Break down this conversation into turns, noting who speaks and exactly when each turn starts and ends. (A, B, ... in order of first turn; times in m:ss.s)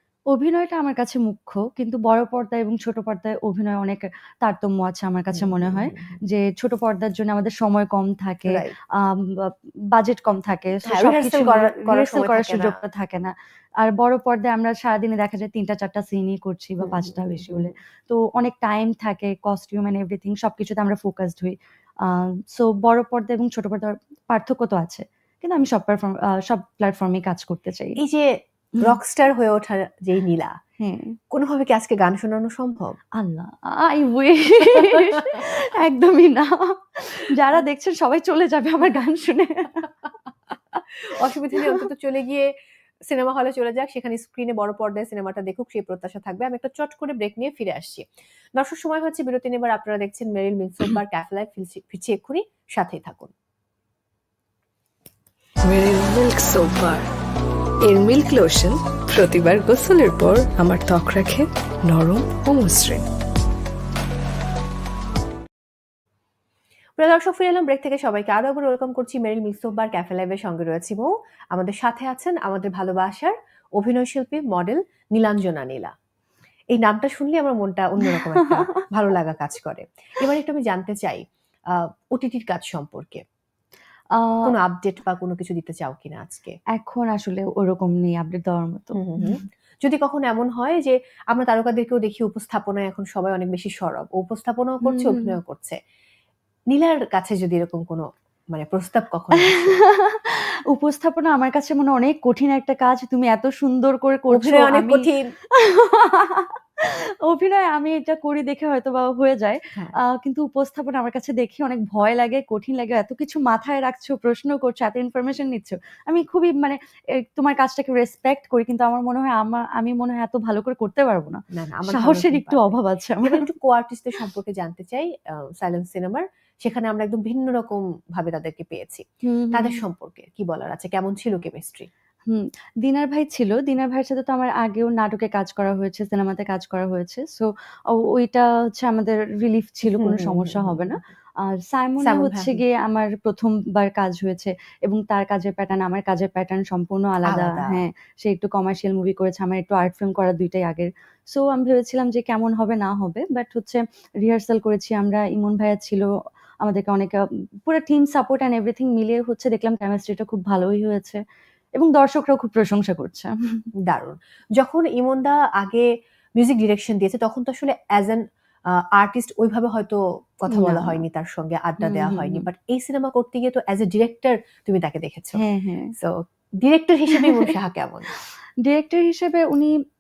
0:00.3-0:28.0 A
0:05.3-0:06.2 B
0:08.5-0:08.8 B
0:10.8-0:12.8 B
0:16.8-0:17.7 B
0:28.0-0:30.5 B
0:30.8-0:31.2 A
0:31.3-0:33.0 B
0:33.2-0:39.9 A
0:41.1-0:42.5 B
0:43.1-0:53.3 B
0:55.6-0:57.1 C
0:57.8-1:03.0 C
1:07.0-1:15.9 B
1:16.7-1:23.2 B
1:18.1-1:18.6 A
1:24.2-1:24.5 A
1:24.4-1:26.6 B
1:26.8-1:29.4 A
1:29.0-1:35.8 B
1:34.8-1:35.4 A
1:36.7-1:39.8 B
1:39.4-2:03.5 A
1:44.3-1:45.3 B
2:01.6-2:11.9 B
2:09.2-2:09.8 A
2:12.3-2:36.1 A
2:19.9-2:21.0 B
2:22.0-2:22.6 B
2:27.3-2:27.8 B
2:36.6-2:37.2 A
2:37.7-2:41.2 A
2:41.8-2:43.3 A
2:43.9-2:45.9 B
2:46.4-2:48.2 B
2:49.0-2:55.4 B
2:50.5-2:51.0 A
2:51.8-2:52.5 A
2:55.4-2:55.9 A
2:56.0-2:58.1 B
2:58.6-2:59.7 A